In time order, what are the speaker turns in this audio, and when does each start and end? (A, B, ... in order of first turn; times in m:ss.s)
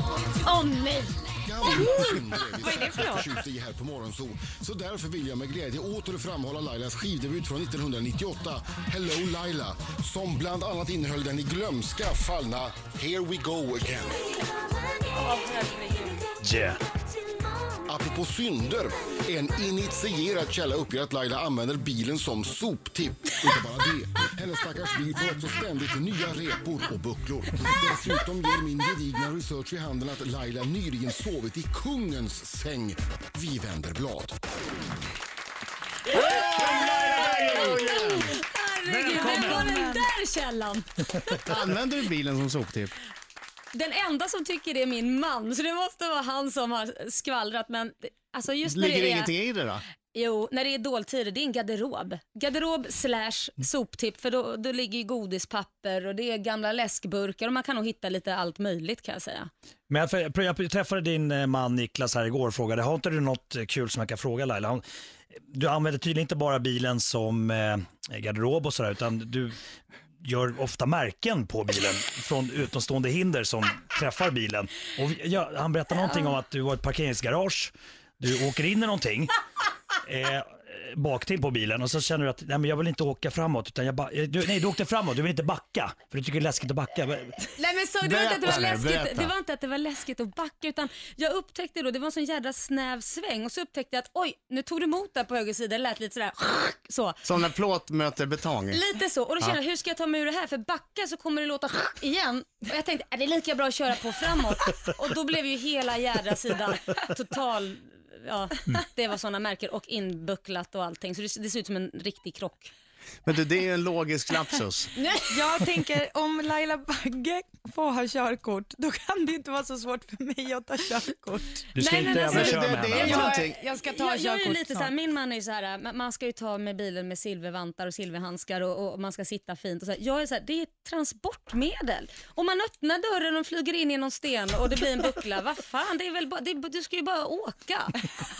0:00.4-0:01.8 A
0:01.4-0:14.2 B
0:01.7-0:03.3 C
0:15.1-0:16.3 A
0:16.4-0:16.8 D
0:17.9-0:34.4 B
0:36.1-0:38.3 E
0:36.2-0:39.7 D
0:36.4-0:41.5 A
0:39.1-0:40.0 C
0:41.4-0:42.9 E
0:43.7-0:49.3 A
0:48.6-0:49.8 E
0:50.1-0:59.5 A
0:59.9-1:04.8 D
1:05.5-1:09.6 D
1:10.2-1:19.4 D
1:20.0-1:27.5 D
1:27.6-1:37.2 A
1:28.0-1:29.3 E
1:37.2-1:38.8 E
1:38.7-1:52.7 A
1:53.2-1:54.9 E
1:55.0-1:55.4 A
1:55.3-2:01.7 C
2:01.7-2:03.3 D
2:01.8-2:18.0 A
2:02.0-2:03.6 E
2:03.0-2:04.9 C